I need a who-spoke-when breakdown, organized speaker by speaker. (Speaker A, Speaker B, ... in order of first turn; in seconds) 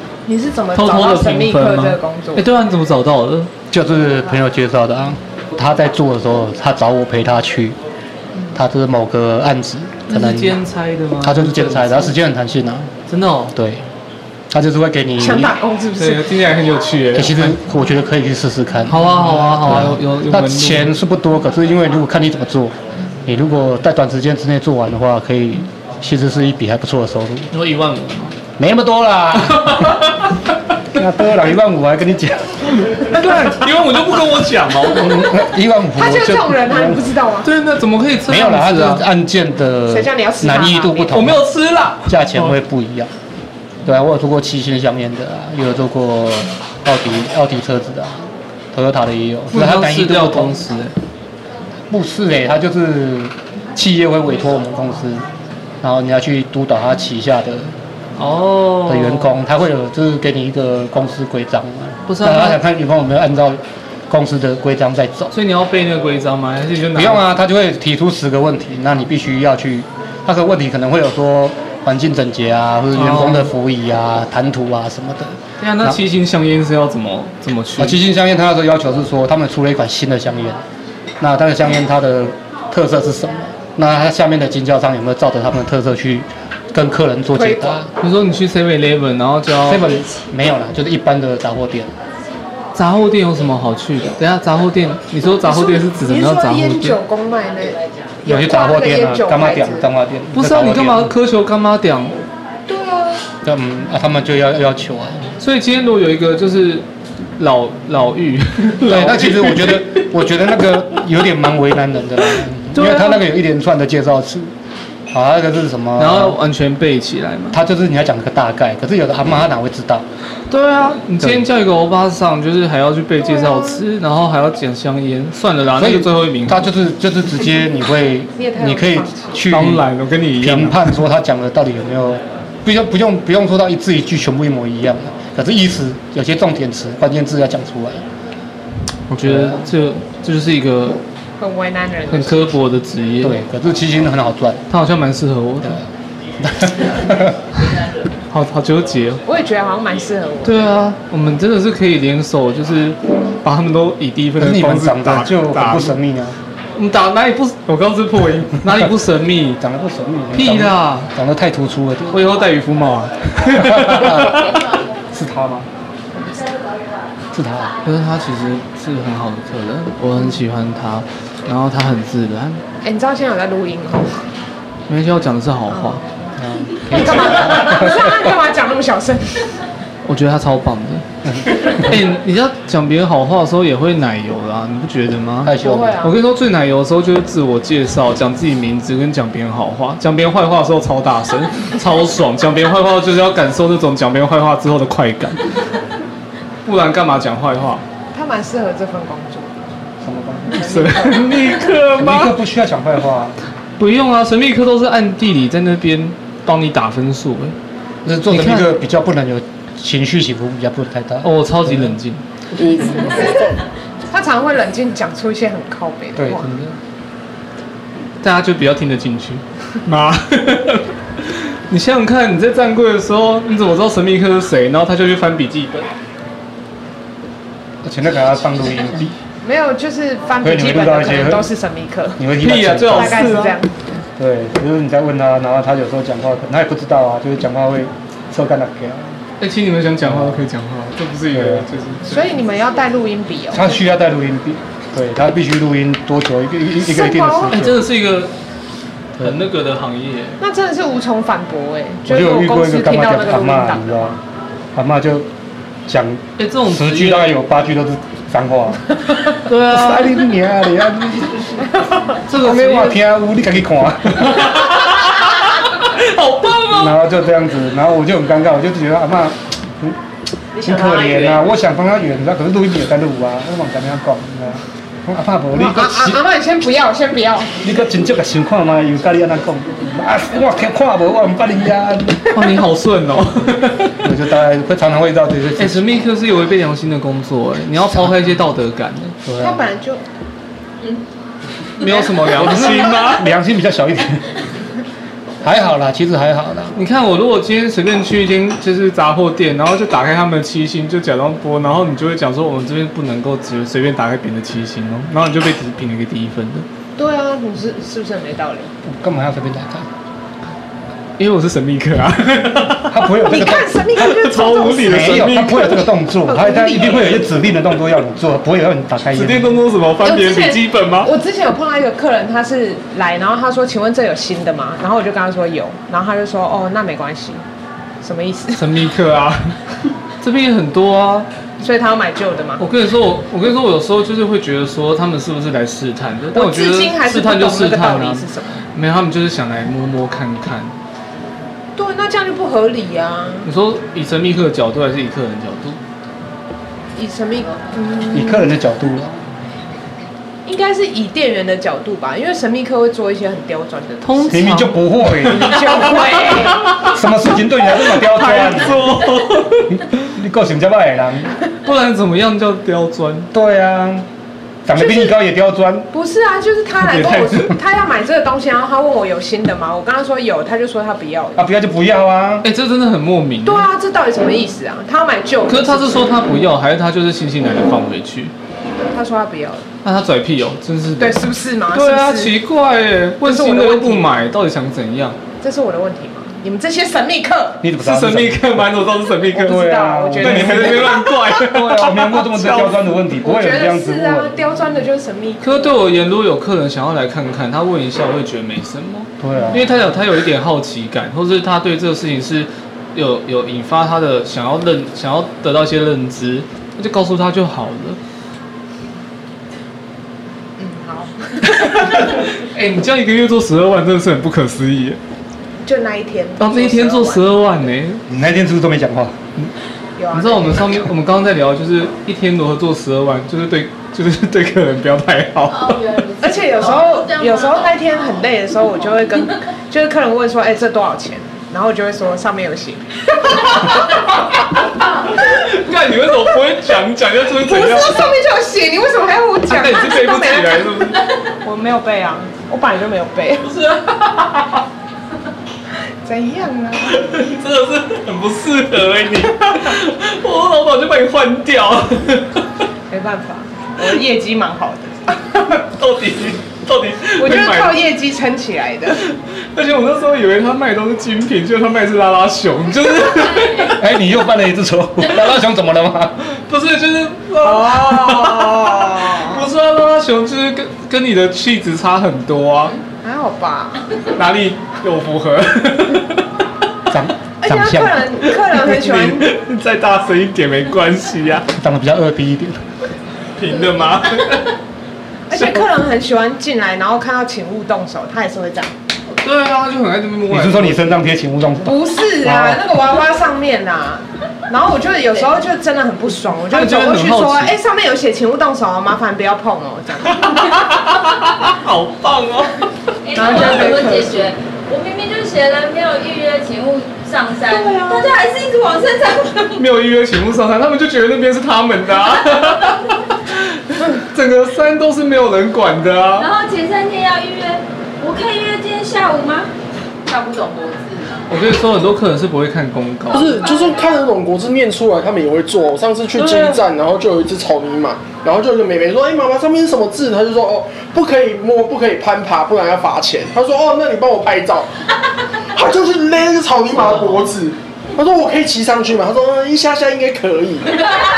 Speaker A: 0.2-2.5, 15.2-16.2, 36.0-37.5, 39.9-41.2, 87.3-87.8, 95.4-99.9, 102.7-103.2, 123.4-123.8, 128.4-129.3, 141.4-142.6, 149.3-150.8, 166.1-166.5, 172.8-174.3, 175.7-176.3, 176.9-179.5, 185.6-186.2, 198.1-199.6, 200.5-201.6, 214.1-216.5, 229.4-232.2, 232.9-233.8, 242.0-243.8, 246.8-247.6, 250.4-254.2, 270.7-271.2, 275.5-277.6, 289.4-290.0, 307.0-308.7, 313.2-315.3, 316.2-317.2, 320.0-327.4, 328.0-328.6, 331.6-332.6, 336.3-338.6, 341.8-343.5, 346.9-348.5, 350.4-354.5, 355.2-356.9, 364.8-365.1, 365.9-371.4, 373.4-376.1, 378.8-379.6, 381.0-382.4, 383.2-384.1, 385.4-387.6, 389.3-391.2, 393.2-395.8, 410.6-412.2, 415.6-417.3, 420.0-420.9, 426.2-434.1, 437.4-443.5, 446.0-447.0, 452.9-455.4, 457.2-459.0, 467.4-469.4, 473.0-473.8, 477.4-479.3, 485.3-488.7, 491.6-500.9, 503.1-504.3, 507.5-508.2
Speaker B: 0.7-3.5, 10.1-12.1, 13.1-13.5, 16.0-17.6, 18.9-20.9, 27.5-28.3, 29.5-30.5, 33.1-35.1, 37.4-39.1, 41.1-42.6, 49.5-50.9, 58.2-59.4, 62.1-62.6, 65.3-67.2, 72.9-73.5, 75.6-78.0, 88.0-90.0, 92.7-97.0, 100.3-102.2, 105.4-106.8, 107.4-110.0, 112.7-113.2, 116.0-117.6, 120.5-126.7, 129.5-131.0, 139.1-141.0, 142.1-143.4, 144.7-145.8, 148.3-149.2, 150.4-156.0, 156.8-159.6, 160.3-161.1, 162.1-164.6, 167.8-172.6, 174.9-176.0, 180.0-181.0, 181.7-195.4, 196.7-197.8, 200.5-202.3, 203.8-207.6, 208.3-208.7, 211.2-212.2, 218.2-225.9, 232.4-233.6, 239.4-242.4, 247.5-248.3, 249.2-250.4, 256.4-257.3, 259.4-260.1, 262.3-263.0, 264.1-267.0, 282.3-284.1, 285.6-289.2, 291.8-293.3, 296.7-306.6, 311.2-313.1, 313.9-315.8, 319.1-321.1, 328.5-329.6, 330.2-331.3, 332.6-340.7, 343.4-345.8, 354.0-356.9, 357.8-360.1, 361.6-363.3, 366.8-367.5, 372.4-373.7, 375.5-378.3, 379.8-385.2, 387.8-389.6, 390.2-392.8, 395.4-408.0, 411.5-415.0, 416.4-418.0, 420.1-425.9, 433.3-434.4, 434.9-438.0, 439.5-441.0, 443.4-444.6, 446.9-452.4, 455.4-457.8, 459.0-463.8, 466.3-472.8, 474.1-476.2, 478.3-481.5, 483.4-484.5, 485.3-485.6, 489.2-490.9, 496.5-497.5, 500.0-502.6, 503.2-503.7, 509.6-516.3, 521.3-523.5, 526.1-526.6
Speaker C: 3.7-7.8, 8.5-10.6, 11.2-12.9, 13.5-13.8, 14.5-15.5, 17.1-22.7, 23.2-27.5, 28.6-30.1, 30.9-33.5, 34.9-37.1, 38.3-41.5, 42.0-43.1, 43.8-50.6, 51.9-55.3, 55.8-57.8, 58.9-65.3, 66.9-76.0, 77.8-80.6, 81.2-87.9, 89.6-91.9, 98.2-101.1, 103.4-105.3, 108.8-114.5, 115.1-116.4, 117.5-120.0, 121.2-121.5, 125.7-129.8, 130.4-138.0, 139.2-139.7, 143.2-144.6, 146.4-147.4, 154.4-156.4, 159.6-162.3, 163.6-164.6, 165.1-165.7, 167.3-167.7, 176.4-178.3, 181.2-181.9, 185.4-186.0, 200.0-200.7, 201.9-203.4, 208.0-212.0, 216.2-216.8, 227.8-229.2, 230.4-231.5, 232.2-233.4, 234.2-239.2, 240.0-240.5, 241.3-241.7, 243.5-247.8, 252.1-254.2, 254.7-255.3, 255.9-259.0, 259.7-264.7, 266.7-270.0, 270.5-276.2, 277.6-282.6, 284.0-285.9, 289.2-289.6, 291.8-294.2, 295.4-296.8, 308.8-309.9, 312.9-313.9, 314.8-319.6, 348.1-349.2, 354.3-355.8, 356.8-359.0, 359.7-361.3, 363.3-364.1, 364.6-365.9, 371.4-372.4, 387.6-394.4, 399.2-399.8, 418.1-419.2, 463.8-466.2, 476.9-478.1, 481.5-482.6, 490.3-492.6
Speaker D: 212.6-213.6, 523.1-534.7, 535.5-540.9
Speaker E: 425.5-428.0, 503.0-509.6, 516.2-519.5, 520.0-521.3, 523.5-523.7